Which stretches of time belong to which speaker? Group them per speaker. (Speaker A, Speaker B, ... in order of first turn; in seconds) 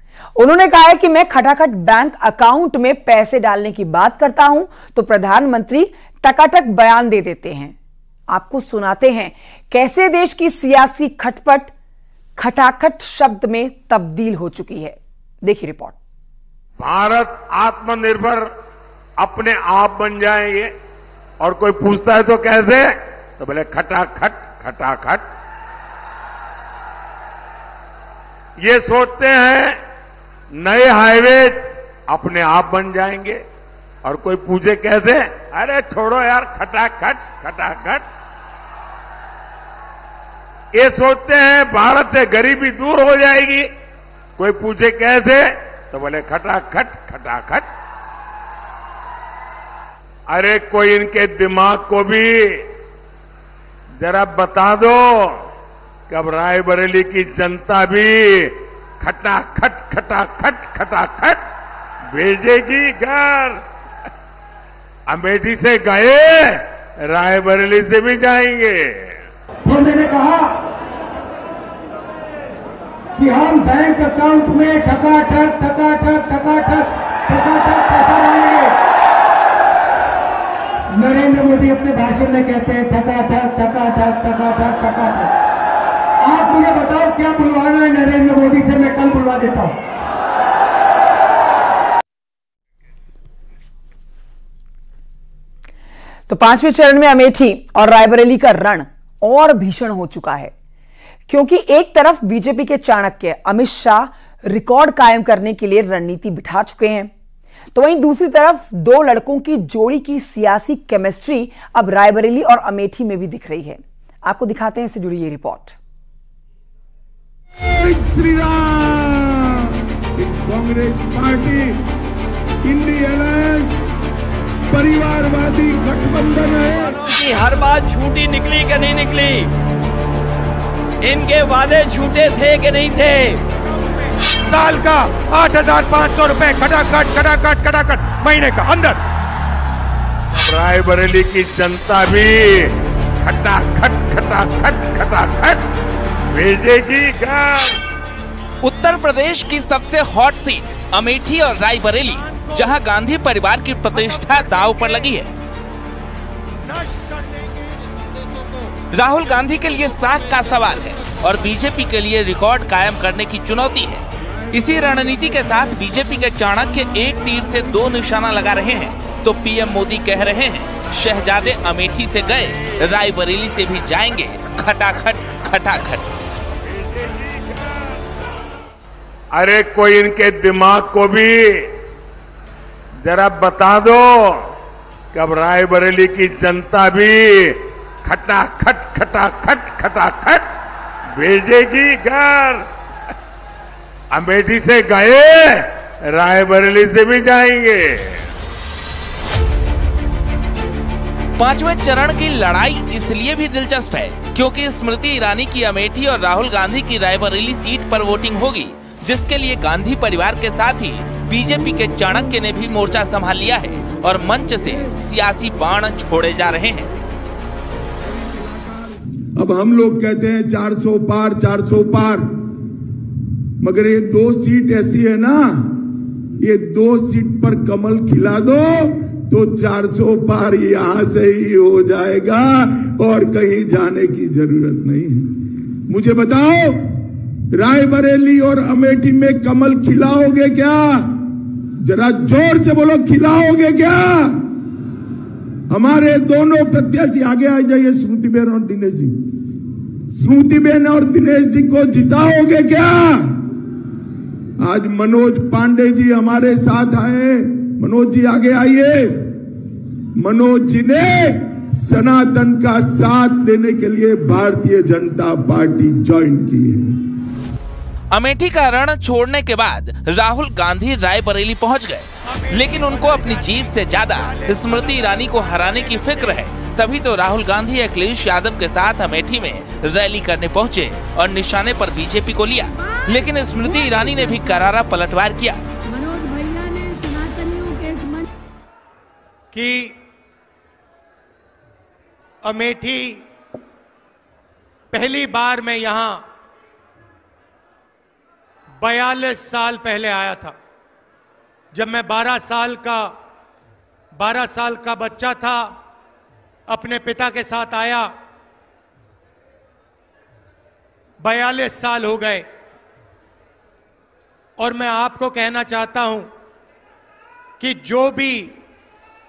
Speaker A: 0.4-7.8, 8.3-11.7, 12.4-16.0, 96.3-100.5, 101.3-107.1, 107.7-115.8
Speaker B: 16.8-18.5, 19.2-20.7, 21.4-25.2, 28.6-29.8, 30.5-33.4, 34.0-38.0, 40.7-43.7, 44.4-47.7, 50.3-52.6, 54.0-55.4, 56.1-61.4, 62.1-63.6, 65.1-69.1, 140.3-145.6, 146.3-147.8, 176.7-177.9, 179.3-181.7, 183.0-184.4, 185.1-190.4, 191.2-192.6, 194.1-198.2
Speaker C: 69.7-70.6, 73.2-78.8, 80.9-85.3, 86.2-89.8
Speaker D: 117.6-121.8, 122.6-123.8, 124.7-127.1, 214.4-214.8, 218.0-222.3, 223.6-225.9, 226.4-244.5, 245.7-249.2, 250.1-253.4, 254.6-259.4, 260.2-267.0
Speaker E: 126.7-127.7, 133.6-139.0, 152.0-152.8, 153.9-155.1, 156.6-158.6, 272.3-276.4, 289.5-290.0, 292.4-293.2, 294.9-296.3, 298.8-300.6, 301.7-303.1, 304.1-305.7, 306.7-308.1, 311.2-312.5, 314.6-316.3, 317.6-318.6
Speaker F: 127.2-129.4, 131.0-133.3
Speaker G: 148.6-155.3, 158.9-176.1, 201.4-216.9, 268.1-285.6
Speaker H: 282.7-284.8, 285.9-288.3